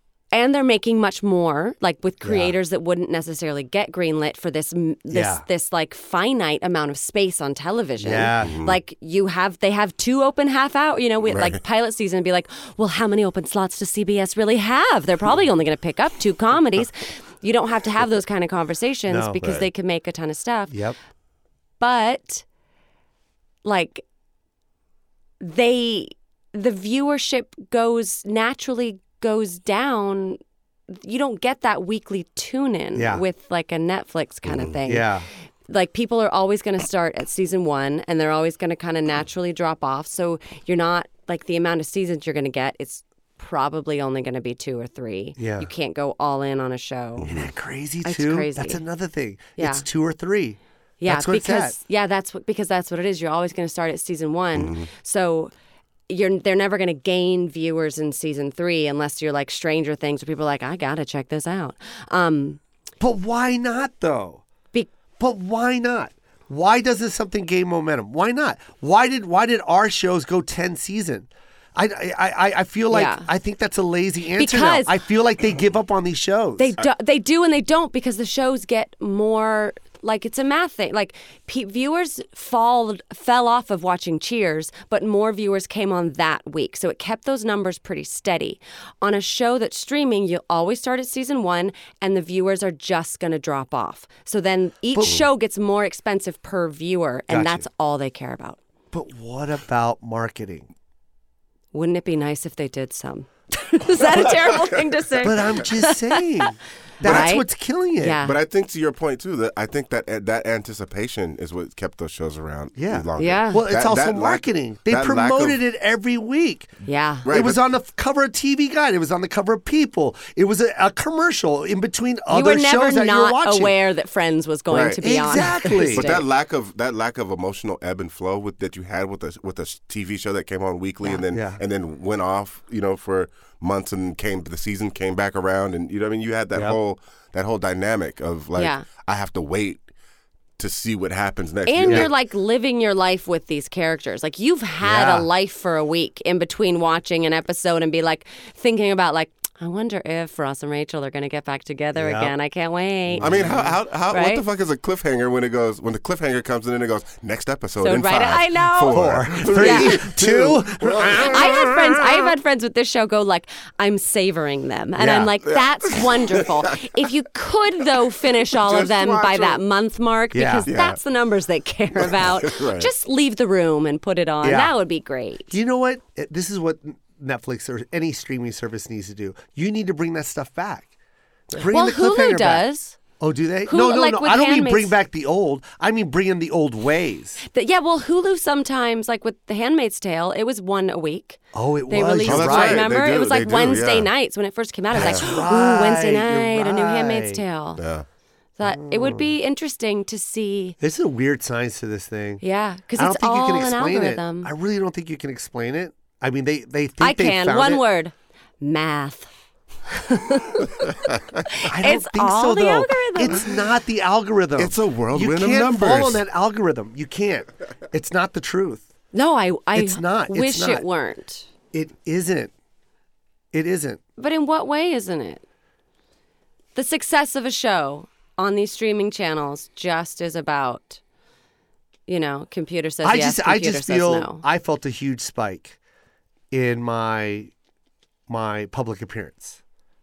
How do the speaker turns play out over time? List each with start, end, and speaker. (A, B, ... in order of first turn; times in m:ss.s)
0:00.3-0:20.7 A
0:02.2-0:02.5 B
0:05.1-0:05.4 B
0:08.0-0:08.5 B
0:08.4-0:08.8 C
0:11.3-0:11.6 C
0:19.1-0:19.4 B
0:20.7-0:21.0 B
0:21.8-0:22.4 A
0:23.6-0:24.0 A
0:25.4-0:30.4 A
0:30.9-0:35.1 A
0:32.9-0:33.2 B
0:34.5-0:34.7 C
0:34.8-0:35.3 B
0:35.7-0:47.4 A
0:45.4-0:45.7 B
0:47.2-0:51.7 B
0:47.2-0:47.5 C
0:48.0-0:48.8 A
0:49.6-0:49.8 A
0:51.0-0:55.5 A
0:54.5-0:54.9 C
0:56.1-1:02.6 A
1:03.0-1:04.4 B
1:05.2-1:16.7 B
1:12.9-1:13.3 A
1:14.4-1:15.0 A
1:16.6-1:38.6 A
1:34.9-1:35.2 B
1:37.3-1:37.6 B
1:38.9-1:40.7 B
1:41.7-1:46.5 A
1:45.2-1:48.2 B
1:47.0-1:47.5 A
1:47.0-1:47.4 C
1:48.0-1:48.3 A
1:48.2-1:55.6 C
1:52.8-1:56.7 B
1:53.2-1:53.6 A
1:56.8-1:57.2 A
1:57.2-1:57.6 C
1:57.3-2:03.7 B
2:02.3-2:06.2 A
2:04.7-2:05.0 C
2:05.0-2:06.1 B
2:05.9-2:19.8 C
2:11.3-2:11.6 B
2:16.5-2:16.8 B
2:18.6-2:18.8 A
2:20.6-2:22.1 C
2:21.6-2:34.4 A
2:24.8-2:25.3 B
2:31.9-2:32.3 B
2:33.1-2:33.8 B
2:33.2-2:41.7 C
2:37.8-2:39.0 A
2:38.9-2:42.0 B
2:39.6-2:40.0 A
2:41.2-2:55.5 A
2:45.0-2:45.3 B
2:45.5-2:46.7 C
2:48.5-2:49.6 C
2:50.3-2:50.7 B
2:50.7-2:51.0 C
2:52.0-2:52.9 C
2:54.4-2:54.7 B
2:55.5-3:00.9 B
3:01.6-3:02.6 B
3:01.7-3:03.0 A
3:03.2-3:07.4 B
3:03.7-3:04.9 A
3:07.5-3:17.8 A
3:11.5-3:12.9 B
3:12.2-3:14.1 C
3:14.9-3:17.4 B
3:15.0-3:15.2 C
3:17.8-3:18.0 C
3:18.6-3:20.8 A
3:18.6-3:19.3 B
3:20.8-3:22.4 B
3:22.4-3:24.5 A
3:23.0-3:27.8 B
3:27.0-3:29.3 A
3:29.9-3:30.9 A
3:31.6-3:33.6 A
3:31.7-3:38.8 B
3:34.6-3:36.2 C
3:39.1-3:41.5 A
3:39.7-3:40.8 B
3:41.7-3:42.5 B
3:43.5-3:44.0 B
3:44.2-3:45.4 A
3:46.7-3:51.0 A
3:52.1-3:54.4 A
3:53.0-3:55.8 B
3:56.5-3:57.5 B
3:58.3-3:59.6 B